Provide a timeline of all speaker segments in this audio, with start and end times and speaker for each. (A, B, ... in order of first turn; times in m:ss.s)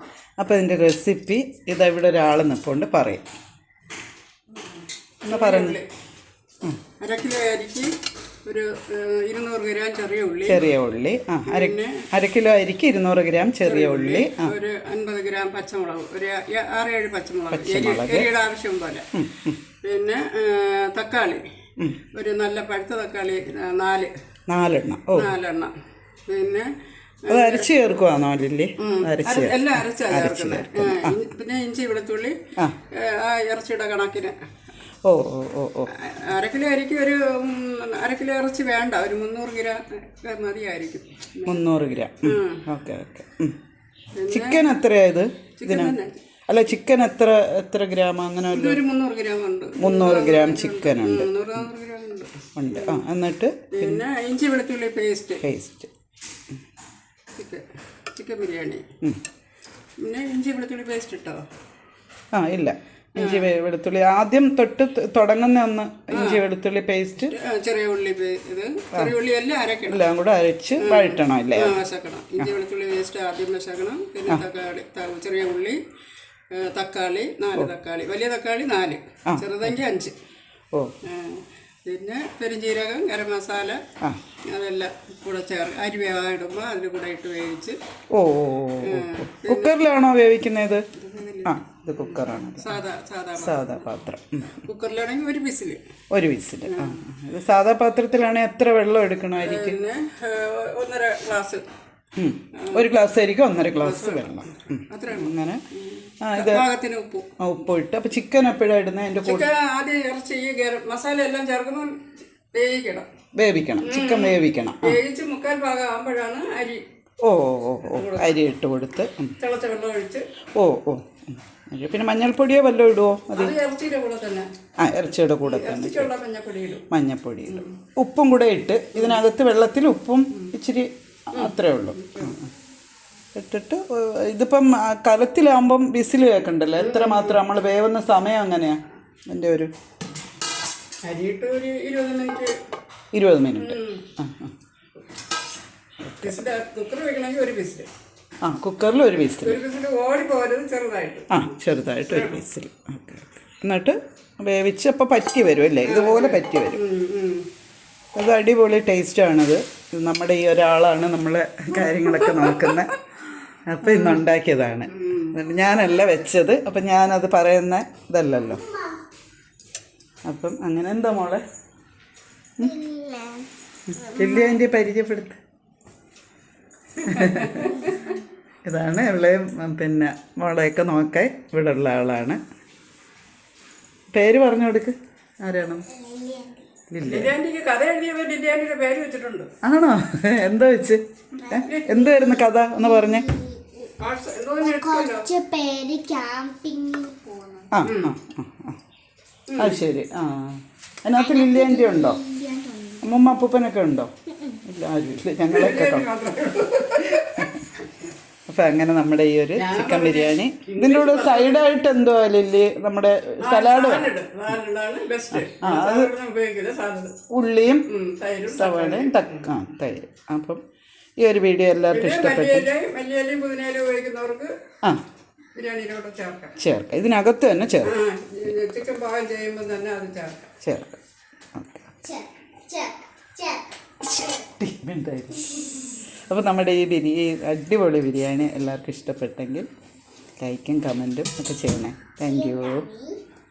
0:00.4-0:03.2 A
0:05.2-0:05.8 A
0:05.3-0:05.9 B
0:07.0-0:07.9 B
0:08.4-0:10.7 B
0:10.5-0:14.5 A
0:11.4-0:12.1 B
0:13.6-0:19.1 B
0:17.5-0:18.3 A
0:19.1-0:19.6 A
0:19.7-0:21.5 B
0:22.0-0:24.2 B
0:24.5-0:25.3 A
0:25.1-0:25.7 B
0:26.3-0:26.7 B
0:27.2-0:27.9 B
0:27.3-0:31.2 A
0:28.8-0:34.4 B
0:35.0-0:35.9 A
0:35.9-0:41.7 B
0:41.4-0:43.6 A
0:42.2-0:42.7 B
0:44.2-0:44.8 B
0:44.3-0:48.8 A
0:45.6-0:46.2 B
0:48.5-0:53.1 B
0:49.8-0:51.6 A
0:52.6-0:54.0 A
0:53.7-0:55.4 B
0:55.4-0:55.9 A
0:57.4-0:58.9 B
1:00.0-1:01.4 B
1:02.3-1:07.4 A
1:03.2-1:03.6 B
1:06.1-1:06.4 B
1:07.2-1:10.0 B
1:09.9-1:11.8 A
1:10.8-1:15.8 B
1:16.5-1:20.2 B
1:19.3-1:19.7 A
1:21.0-1:23.8 B
1:24.5-1:27.8 B
1:28.1-1:30.8 A
1:28.8-1:29.9 B
1:30.9-1:33.9 B
1:31.4-1:32.8 A
1:33.4-1:34.6 A
1:34.6-1:35.8 B
1:36.1-1:39.8 A
1:36.7-1:37.0 B
1:39.4-1:41.6 B
1:42.2-1:45.6 A
1:42.5-1:42.9 B
1:43.8-1:47.3 B
1:46.2-1:46.6 A
1:47.4-1:49.5 A
1:49.2-1:53.1 B
1:53.4-1:55.0 A
1:53.8-1:56.8 B
1:57.2-1:59.3 A
1:57.8-1:58.4 B
1:59.4-2:00.3 B
2:00.6-2:03.6 A
2:03.3-2:04.5 B
2:04.8-2:06.1 A
2:05.4-2:06.9 B
2:06.9-2:12.5 A
2:07.5-2:07.8 B
2:08.9-2:09.2 B
2:11.3-2:12.4 B
2:13.4-2:19.7 A
2:16.8-2:17.4 B
2:21.0-2:22.6 B
2:23.1-2:24.5 A
2:23.6-2:24.1 B
2:26.1-2:26.4 A
2:26.2-2:27.9 B
2:28.4-2:29.6 A
2:29.4-2:32.4 B
2:31.3-2:36.8 A
2:35.8-2:37.5 B
2:38.2-2:43.0 A
2:41.9-2:42.9 B
2:43.7-2:48.7 A
2:43.8-2:44.2 B
2:44.9-2:45.4 B
2:48.5-2:49.0 C
2:50.3-2:51.4 A
2:52.6-2:54.6 C
2:53.9-2:55.4 A
2:57.0-2:58.1 B
2:57.0-2:57.9 A
2:58.6-3:02.4 A
3:04.1-3:05.9 A
3:05.9-3:06.7 C
3:06.9-3:07.4 A
3:07.0-3:09.5 B
3:09.6-3:13.3 A
3:11.5-3:13.9 C
3:11.5-3:12.0 B
3:14.0-3:15.3 B
3:14.6-3:17.7 C
3:17.7-3:18.8 A
3:17.8-3:18.1 B
3:19.5-3:19.8 B
3:19.6-3:22.2 A
3:21.2-3:23.0 C
3:23.0-3:26.1 A
3:25.5-3:27.5 B
3:27.2-3:27.6 A
3:28.5-3:34.1 A
3:29.6-3:31.7 B
3:33.4-3:37.2 B
3:35.3-3:36.1 A
3:37.3-3:37.8 A
3:37.9-3:39.5 B
3:38.5-3:40.6 A
3:41.2-3:42.7 A
3:41.9-3:44.6 B
3:45.6-3:46.6 B
3:46.6-3:48.0 A
3:47.8-3:50.5 B
3:50.6-3:51.0 A
3:51.6-3:52.0 A
3:52.0-3:54.5 C
3:54.1-3:59.7 A
4:00.4-4:02.9 A
4:02.2-4:03.2 C